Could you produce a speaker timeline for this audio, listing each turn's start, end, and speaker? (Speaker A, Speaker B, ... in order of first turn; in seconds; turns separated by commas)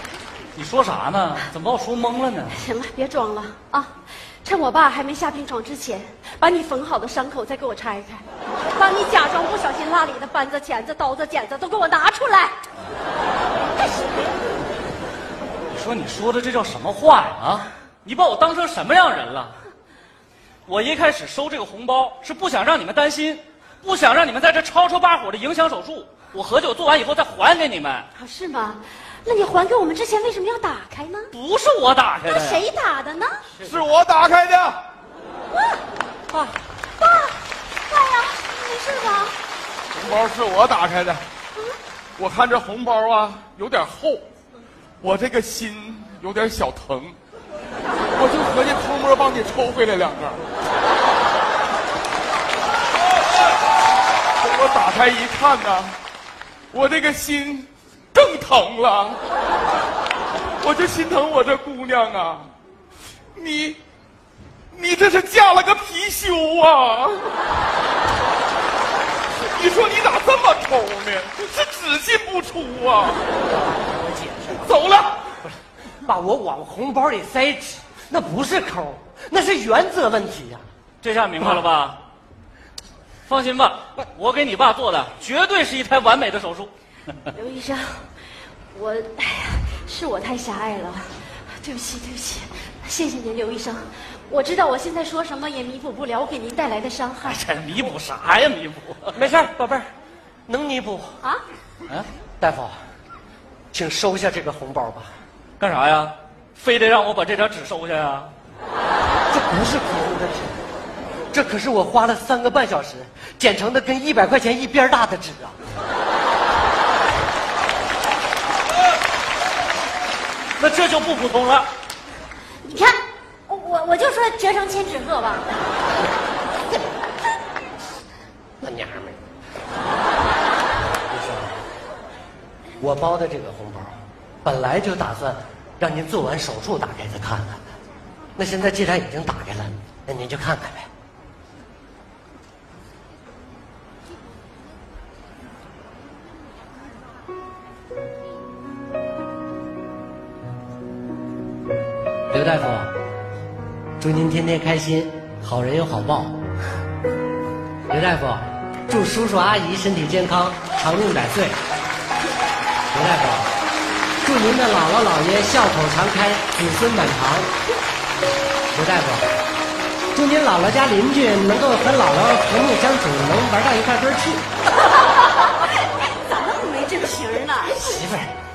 Speaker A: 0.6-2.6, Speaker B: 2.5-12.6, Speaker A: 15.7-19.6, Speaker A: 20.7-28.1, Speaker B: 28.1-31.3, Speaker A: 31.3-32.6, Speaker B: 32.3-33.5, Speaker C: 33.6-33.8, Speaker D: 33.6-34.8, Speaker B: 35.5-35.8, Speaker C: 36.3-36.5, Speaker B: 37.0-39.4, Speaker D: 39.9-41.3, Speaker D: 42.2-44.2, Speaker D: 45.0-47.2, Speaker D: 48.1-50.4, Speaker D: 54.4-56.0, Speaker D: 56.7-59.2, Speaker D: 60.6-62.5, Speaker D: 63.4-63.8, Speaker D: 64.7-67.3, Speaker D: 69.4-73.3, Speaker C: 73.5-74.7, Speaker D: 74.6-75.3, Speaker C: 75.4-80.6, Speaker A: 81.0-82.0, Speaker A: 83.3-86.7, Speaker B: 87.3-88.1, Speaker B: 88.7-97.4, Speaker A: 97.2-99.2, Speaker C: 99.1-99.9, Speaker C: 100.5-101.1, Speaker C: 102.4-102.8, Speaker C: 103.7-105.1, Speaker A: 105.6-108.3, Speaker C: 109.3-110.6, Speaker C: 111.3-115.6, Speaker A: 120.6-121.7, Speaker B: 122.6-125.5, Speaker C: 128.6-129.2, Speaker C: 131.1-131.6, Speaker C: 132.8-137.6, Speaker C: 138.4-140.9, Speaker C: 152.3-152.9, Speaker C: 154.0-156.4, Speaker C: 157.9-161.6, Speaker C: 162.9-163.6, Speaker C: 164.2-167.5, Speaker C: 168.7-169.3, Speaker C: 170.1-174.4, Speaker B: 175.0-177.9, Speaker C: 177.7-178.3